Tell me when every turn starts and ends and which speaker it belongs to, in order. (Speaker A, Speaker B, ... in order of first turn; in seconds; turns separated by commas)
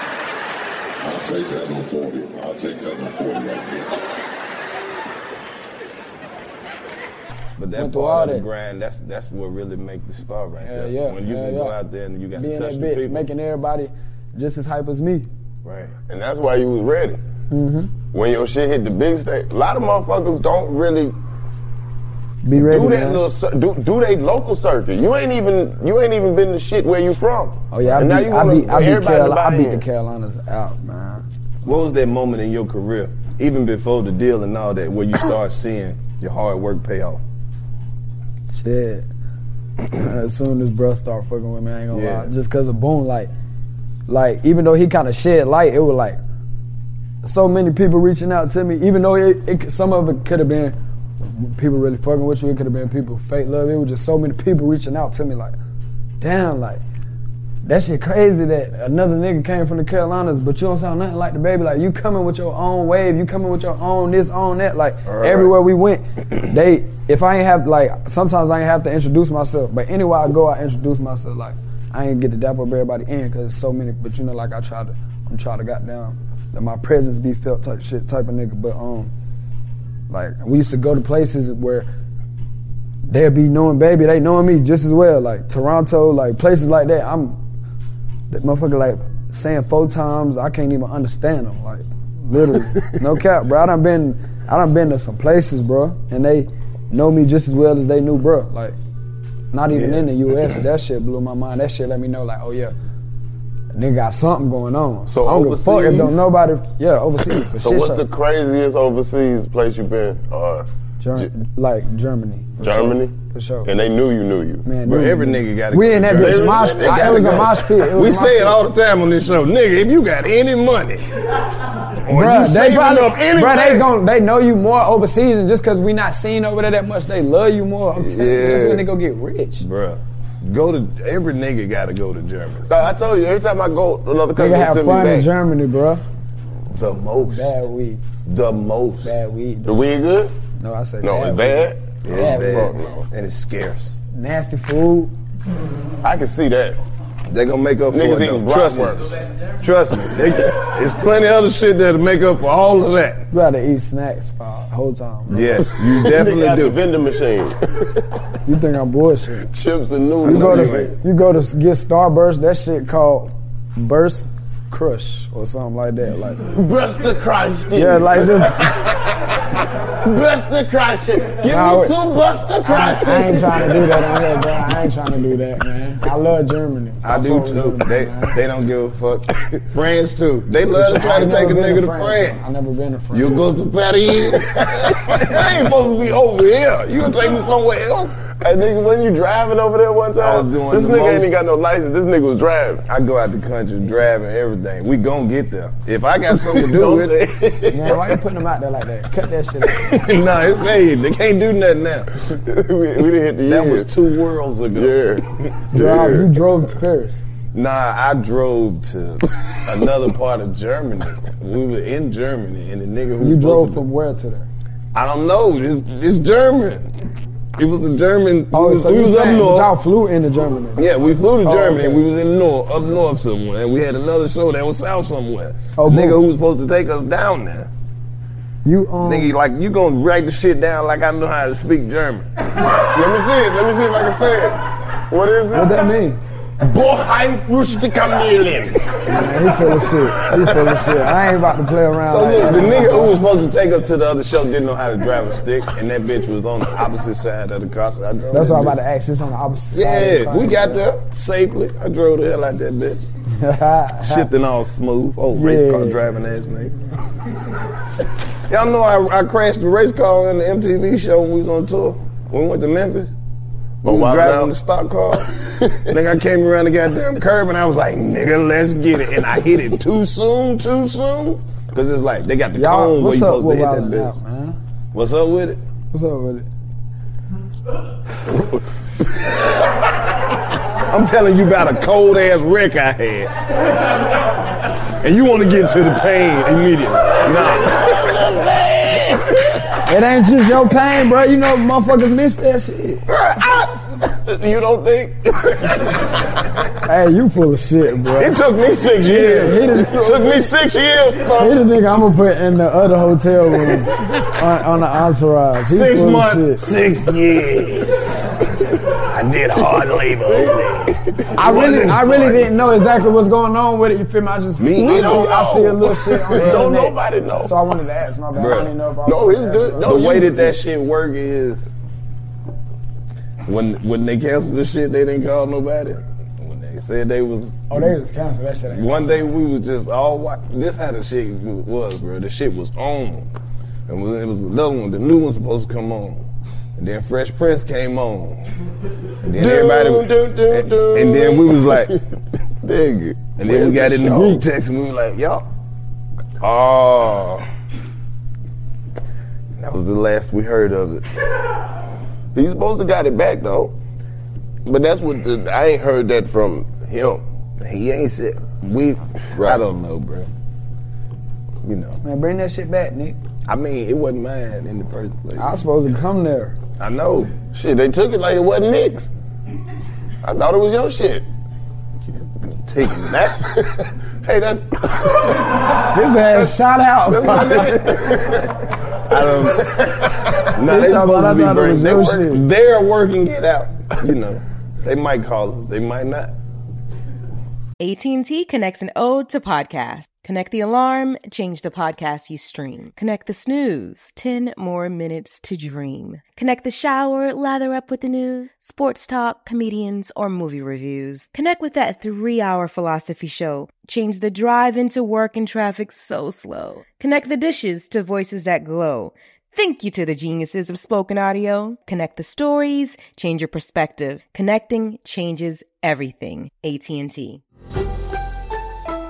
Speaker A: 1.0-3.9, Speaker B: 7.6-13.3, Speaker C: 7.8-8.4, Speaker C: 10.6-11.8, Speaker C: 12.3-15.3, Speaker B: 15.6-15.9, Speaker D: 16.1-17.2, Speaker C: 17.5-17.9, Speaker D: 18.1-21.1, Speaker C: 22.4-23.2, Speaker D: 22.6-29.8, Speaker C: 27.7-31.2, Speaker B: 31.6-37.2, Speaker C: 38.5-39.1, Speaker C: 39.9-43.3, Speaker B: 41.9-42.3, Speaker C: 44.1-46.2, Speaker C: 47.2-50.8, Speaker C: 51.3-55.5, Speaker C: 56.2-56.8, Speaker C: 57.6-79.1, Speaker B: 65.1-65.5, Speaker C: 80.1-81.9, Speaker C: 83.1-87.4, Speaker C: 88.3-98.8, Speaker C: 99.5-102.7, Speaker B: 99.7-100.5, Speaker C: 103.7-108.0, Speaker D: 105.1-106.2, Speaker D: 107.5-110.7, Speaker C: 111.0-113.7, Speaker D: 112.6-113.1, Speaker D: 113.6-114.6, Speaker C: 114.6-118.6, Speaker B: 114.8-121.4, Speaker D: 116.1-117.5, Speaker B: 122.0-123.7, Speaker C: 122.1-129.7, Speaker D: 128.0-128.9, Speaker B: 129.6-132.7, Speaker D: 132.7-135.3, Speaker C: 134.4-136.0, Speaker B: 136.7-137.6, Speaker C: 137.2-138.0, Speaker B: 138.2-139.2, Speaker C: 139.0-139.9, Speaker D: 139.6-140.3, Speaker C: 140.6-142.9, Speaker D: 141.0-143.1, Speaker B: 142.0-144.0, Speaker C: 144.1-145.1, Speaker D: 146.0-146.8, Speaker B: 147.3-153.3, Speaker D: 147.9-149.2, Speaker C: 153.3-155.7, Speaker B: 155.3-156.8, Speaker D: 155.8-158.0, Speaker C: 158.4-159.5, Speaker D: 159.5-160.9, Speaker B: 160.2-160.9, Speaker C: 160.2-166.4, Speaker D: 166.5-169.0, Speaker C: 167.7-168.8, Speaker D: 170.0-173.9, Speaker C: 171.4-171.9, Speaker C: 172.6-178.4, Speaker B: 177.0-182.5, Speaker C: 180.7-183.5, Speaker B: 183.1-188.2, Speaker D: 188.3-192.8, Speaker B: 190.2-191.3, Speaker B: 192.9-197.3, Speaker D: 196.4-198.0, Speaker C: 197.7-200.0, Speaker B: 199.7-202.1, Speaker D: 202.4-203.9, Speaker B: 203.4-205.0, Speaker D: 204.7-206.3, Speaker C: 205.7-207.2, Speaker B: 207.5-213.8, Speaker C: 213.2-214.5, Speaker B: 214.9-216.9, Speaker B: 217.6-219.7, Speaker C: 218.5-220.9, Speaker B: 220.8-227.7, Speaker C: 221.4-222.0, Speaker C: 225.8-226.2, Speaker C: 228.6-229.3, Speaker B: 229.0-232.3, Speaker D: 232.9-235.8, Speaker C: 235.5-236.2, Speaker D: 236.6-238.9, Speaker C: 239.1-243.2, Speaker B: 242.1-248.8, Speaker C: 248.3-250.8, Speaker B: 249.7-253.0, Speaker C: 253.4-254.3, Speaker B: 254.0-256.8, Speaker C: 255.3-256.0, Speaker B: 258.5-263.1, Speaker D: 263.8-264.5, Speaker B: 263.8-265.3, Speaker B: 265.9-274.1, Speaker C: 272.5-274.6, Speaker B: 274.9-275.6, Speaker C: 275.9-276.5, Speaker B: 280.9-283.3, Speaker B: 284.9-288.1, Speaker D: 287.2-289.6, Speaker C: 289.9-293.0, Speaker D: 293.2-296.0, Speaker C: 296.9-298.4, Speaker B: 298.2-300.6, Speaker D: 298.9-301.6, Speaker C: 299.1-300.1, Speaker C: 301.4-306.7, Speaker B: 305.7-308.3, Speaker B: 308.9-312.5, Speaker D: 310.3-310.6, Speaker C: 311.4-320.4, Speaker D: 314.6-317.6, Speaker B: 314.8-315.3, Speaker B: 316.3-316.7, Speaker B: 318.4-318.7, Speaker D: 319.1-320.6, Speaker B: 319.8-321.7, Speaker B: 323.4-327.9, Speaker C: 327.7-329.3, Speaker B: 328.7-333.3, Speaker B: 333.9-336.3, Speaker B: 336.8-338.4, Speaker B: 339.2-341.9, Speaker D: 339.4-342.0, Speaker D: 342.6-344.4, Speaker B: 343.4-345.4, Speaker B: 346.4-347.4, Speaker B: 349.6-351.1, Speaker D: 352.3-353.8, Speaker D: 354.6-357.2, Speaker B: 357.6-360.3, Speaker B: 361.6-362.0, Speaker C: 362.0-363.2, Speaker B: 363.5-365.5, Speaker C: 365.4-366.6, Speaker B: 366.8-367.4, Speaker D: 367.5-369.1, Speaker D: 370.2-371.3, Speaker B: 372.1-373.3, Speaker D: 373.0-375.4, Speaker C: 375.9-377.8, Speaker D: 377.1-378.5, Speaker B: 377.5-378.3, Speaker B: 379.1-386.4, Speaker D: 379.2-379.8, Speaker C: 380.6-382.4, Speaker E: 387.8-417.4